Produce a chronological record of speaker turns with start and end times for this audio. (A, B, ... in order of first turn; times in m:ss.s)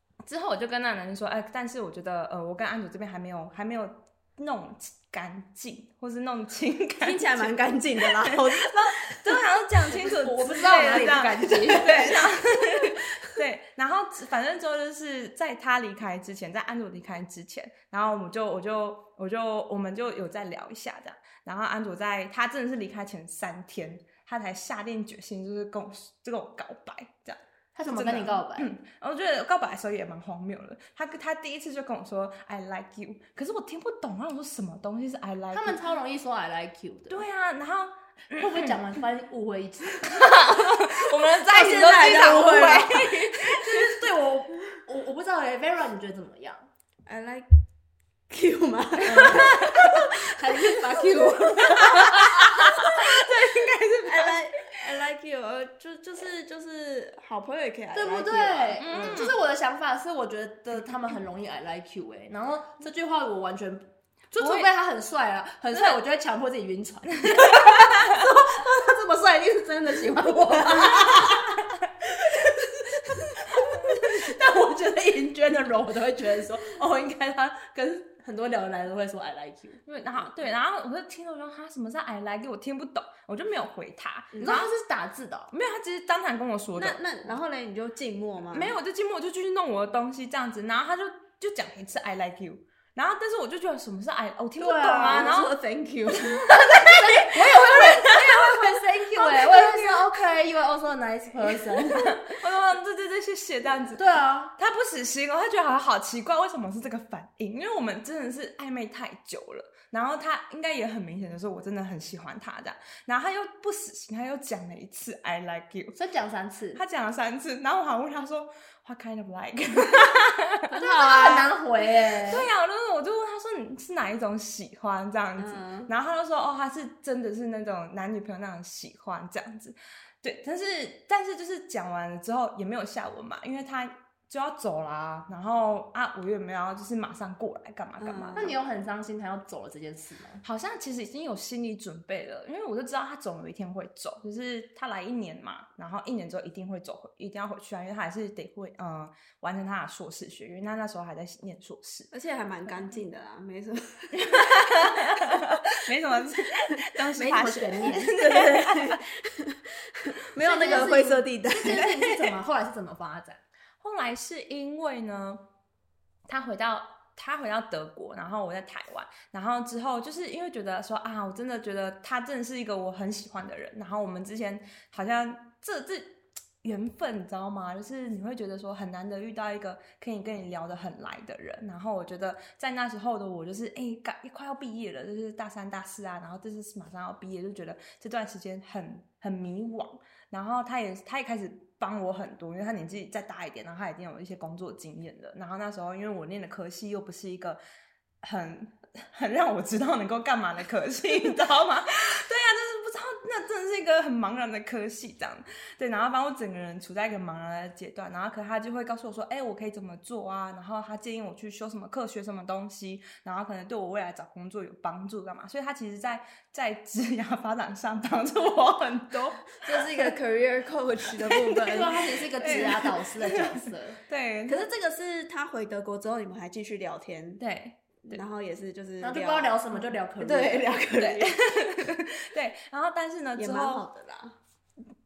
0:00.2-0:35.8 A
0:07.0-0:09.3 B
0:09.9-0:12.3 C
0:27.7-0:28.7 C
0:35.5-0:37.2 C
0:37.1-0:38.8 A
0:38.3-0:40.4 C
0:39.9-0:44.0 A
0:41.4-0:43.0 B
0:41.7-0:46.6 C
0:47.0-0:47.5 B
0:48.3-0:52.9 B
0:49.0-0:52.7 C
0:49.2-0:50.0 A
0:51.7-0:54.4 A
0:54.0-0:59.2 B
0:57.9-1:19.8 C
0:58.8-0:59.3 A
1:04.4-1:04.7 A
1:07.2-1:08.2 A
1:13.7-1:14.2 A
1:19.8-1:24.7 A
1:24.4-1:25.5 C
1:25.5-1:27.0 A
1:26.8-1:28.7 B
1:28.5-1:35.5 A
1:34.6-1:35.5 C
1:34.9-1:36.5 B
1:36.3-1:40.1 A
1:36.4-1:42.3 C
1:41.8-1:44.0 A
1:44.0-1:44.5 C
1:44.6-1:56.0 A
1:55.9-1:56.8 C
1:56.7-2:01.5 A
2:00.7-2:02.5 C
2:00.9-2:01.3 B
2:02.2-2:18.6 A
2:05.4-2:05.9 B
2:18.0-2:18.5 B
2:18.3-2:20.4 C
2:20.4-2:32.1 A
2:32.1-2:34.9 B
2:34.1-2:39.0 A
2:37.1-2:38.1 C
2:37.9-2:41.9 B
2:40.4-2:43.4 C
2:41.7-2:42.3 A
2:43.8-2:45.4 A
2:46.3-3:17.6 A
3:18.2-3:40.1 A
3:39.6-3:42.8 B
3:41.4-3:41.8 A
3:41.6-3:44.0 C
3:42.4-3:44.7 A
3:44.5-3:47.4 B
3:47.4-3:48.2 A
3:48.0-3:49.6 B
3:49.0-3:50.7 C
3:50.2-3:51.4 B
3:51.0-3:53.8 A
3:53.4-3:54.4 B